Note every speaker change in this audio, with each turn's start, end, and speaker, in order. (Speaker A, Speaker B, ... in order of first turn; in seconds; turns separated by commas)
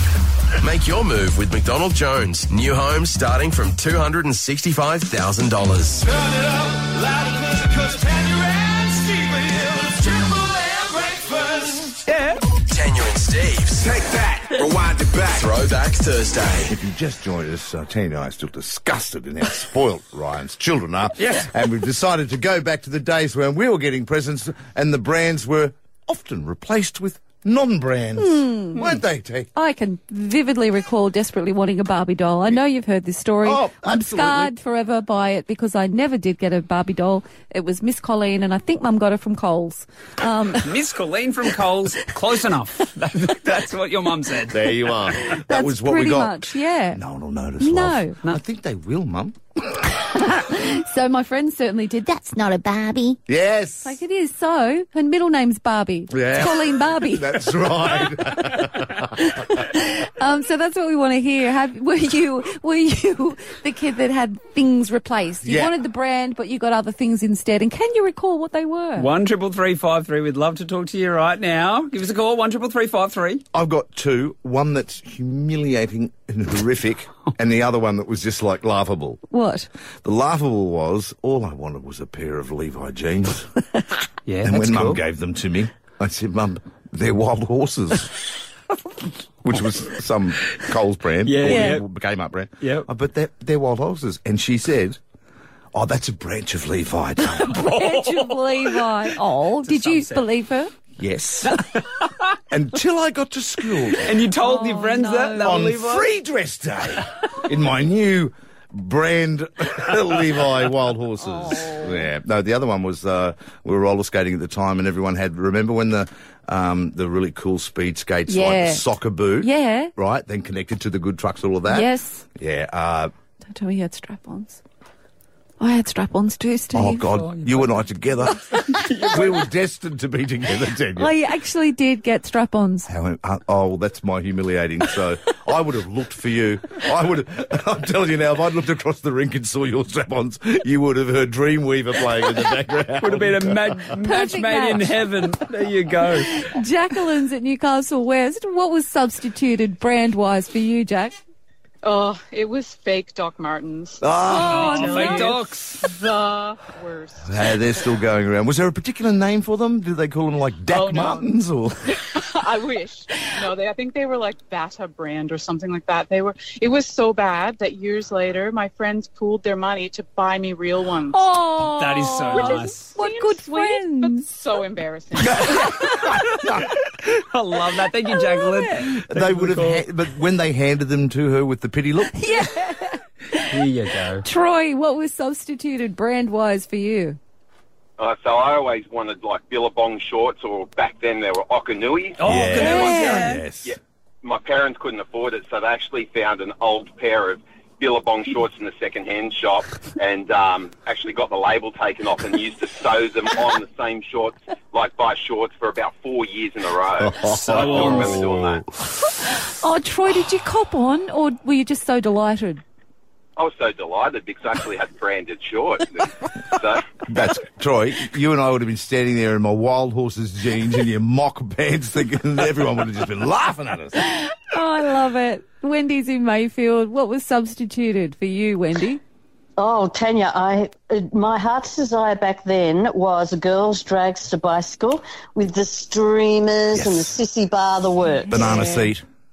Speaker A: 0.6-6.0, Speaker B: 6.0-12.0, Speaker C: 12.1-12.4, Speaker A: 12.7-13.9, Speaker B: 13.8-15.6, Speaker A: 14.5-16.7, Speaker D: 16.6-29.5, Speaker C: 21.2-21.5, Speaker E: 28.2-28.8, Speaker E: 29.5-40.7, Speaker D: 33.4-34.5, Speaker C: 40.6-45.0, Speaker D: 44.5-49.8, Speaker E: 45.5-47.0, Speaker E: 47.6-48.2, Speaker E: 49.9-52.7, Speaker D: 53.2-54.0, Speaker E: 53.8-69.1, Speaker D: 56.1-59.4, Speaker D: 65.4-65.7, Speaker C: 69.0-73.4, Speaker D: 73.5-79.2, Speaker E: 79.3-79.7, Speaker D: 80.0-83.5, Speaker C: 84.3-85.0, Speaker D: 84.4-88.3, Speaker D: 89.4-95.0, Speaker C: 91.2-91.8, Speaker E: 91.4-91.8, Speaker C: 92.6-92.9, Speaker D: 95.7-97.6, Speaker C: 97.5-99.0, Speaker E: 97.5-100.7, Speaker C: 99.6-100.2, Speaker D: 101.0-101.6, Speaker C: 101.5-102.1, Speaker D: 102.5-104.2, Speaker C: 104.0-106.0, Speaker E: 104.4-105.6, Speaker D: 105.4-123.1, Speaker E: 111.2-112.0, Speaker E: 118.3-118.8, Speaker E: 119.4-119.9, Speaker E: 121.7-122.2, Speaker E: 123.5-124.6, Speaker E: 125.6-127.1, Speaker D: 126.7-131.1, Speaker C: 127.1-128.0, Speaker E: 128.5-129.0, Speaker C: 128.5-129.3, Speaker E: 130.9-132.9, Speaker D: 132.9-143.8, Speaker C: 143.0-146.3, Speaker E: 144.0-145.1, Speaker E: 146.2-151.2, Speaker F: 151.8-157.8, Speaker D: 154.0-154.8, Speaker E: 154.3-155.3, Speaker C: 154.4-155.8, Speaker D: 157.2-161.8, Speaker F: 160.7-161.3, Speaker F: 162.1-171.3, Speaker E: 171.1-174.3, Speaker C: 171.6-172.9, Speaker F: 172.3-175.4, Speaker D: 175.3-176.7, Speaker E: 175.6-175.9, Speaker C: 177.0-179.8, Speaker E: 178.1-178.8, Speaker D: 178.9-182.4, Speaker E: 182.2-183.5, Speaker C: 183.5-184.2, Speaker E: 184.2-187.2, Speaker G: 188.0-192.2, Speaker C: 192.2-193.4, Speaker D: 192.2-193.8, Speaker E: 192.6-193.4, Speaker G: 193.6-208.6, Speaker D: 207.0-208.6, Speaker C: 207.2-208.3, Speaker E: 209.2-212.6, Speaker G: 213.4-216.9, Speaker D: 217.1-224.0, Speaker E: 224.0-229.0, Speaker H: 229.6-238.5, Speaker D: 236.7-237.2, Speaker E: 238.1-238.9, Speaker D: 238.3-239.0